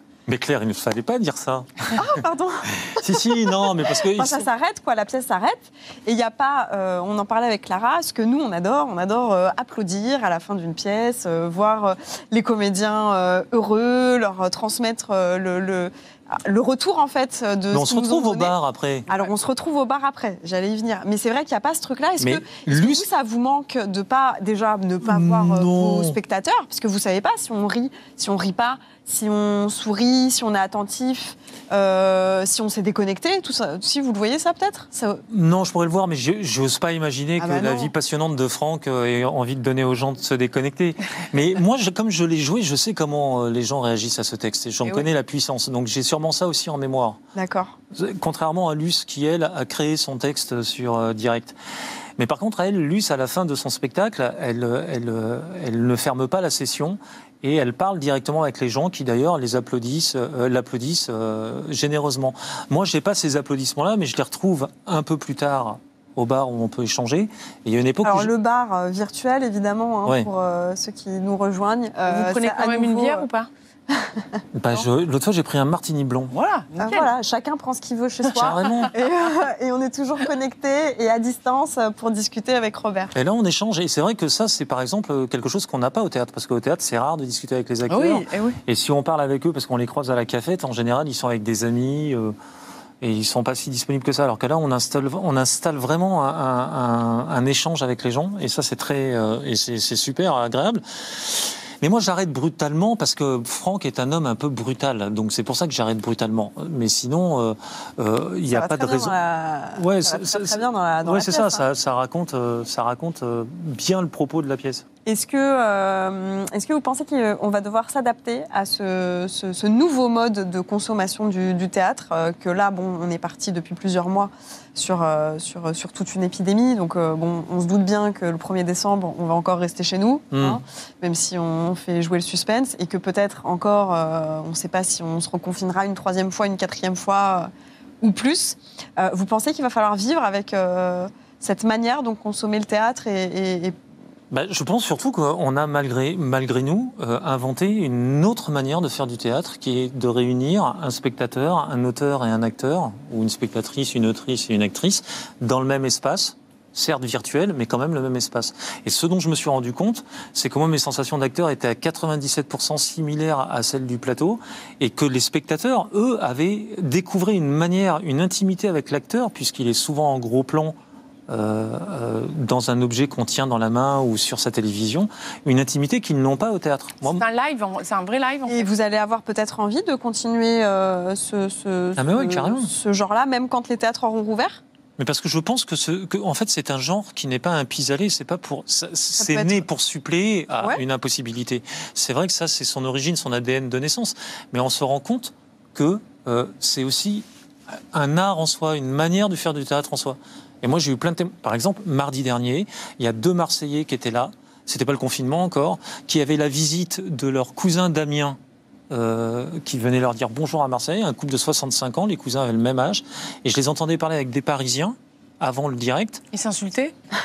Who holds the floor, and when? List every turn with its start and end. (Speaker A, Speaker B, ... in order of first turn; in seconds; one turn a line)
Speaker A: 0.3-2.1
Speaker B: 1.9-3.5
Speaker A: 2.8-4.5
Speaker B: 4.1-18.5
Speaker A: 17.7-19.1
Speaker B: 19.1-35.2
Speaker A: 22.2-23.1
Speaker A: 25.0-26.2
Speaker A: 35.3-47.2
Speaker B: 37.4-37.9
Speaker B: 47.3-47.8
Speaker A: 47.9-51.5
Speaker A: 52.2-68.3
Speaker B: 68.0-73.3
Speaker C: 72.1-73.5
Speaker B: 73.9-74.4
Speaker A: 74.5-76.3
Speaker C: 76.3-77.1
Speaker B: 76.8-83.1
Speaker A: 78.3-78.9
Speaker C: 78.6-78.9
Speaker A: 83.1-92.3
Speaker C: 87.9-88.6
Speaker A: 93.0-109.1
Speaker B: 108.5-111.6
Speaker A: 109.7-114.8
Speaker B: 115.0-137.5
Speaker A: 130.3-130.6
Speaker B: 138.0-143.8
Speaker A: 144.3-170.7
Speaker A: 171.3-177.2
Speaker C: 177.1-178.7
Speaker B: 178.5-184.6
Speaker A: 182.0-182.7
Speaker A: 185.0-208.4
Speaker B: 189.2-189.6
Speaker A: 208.9-216.2
Speaker C: 216.3-216.9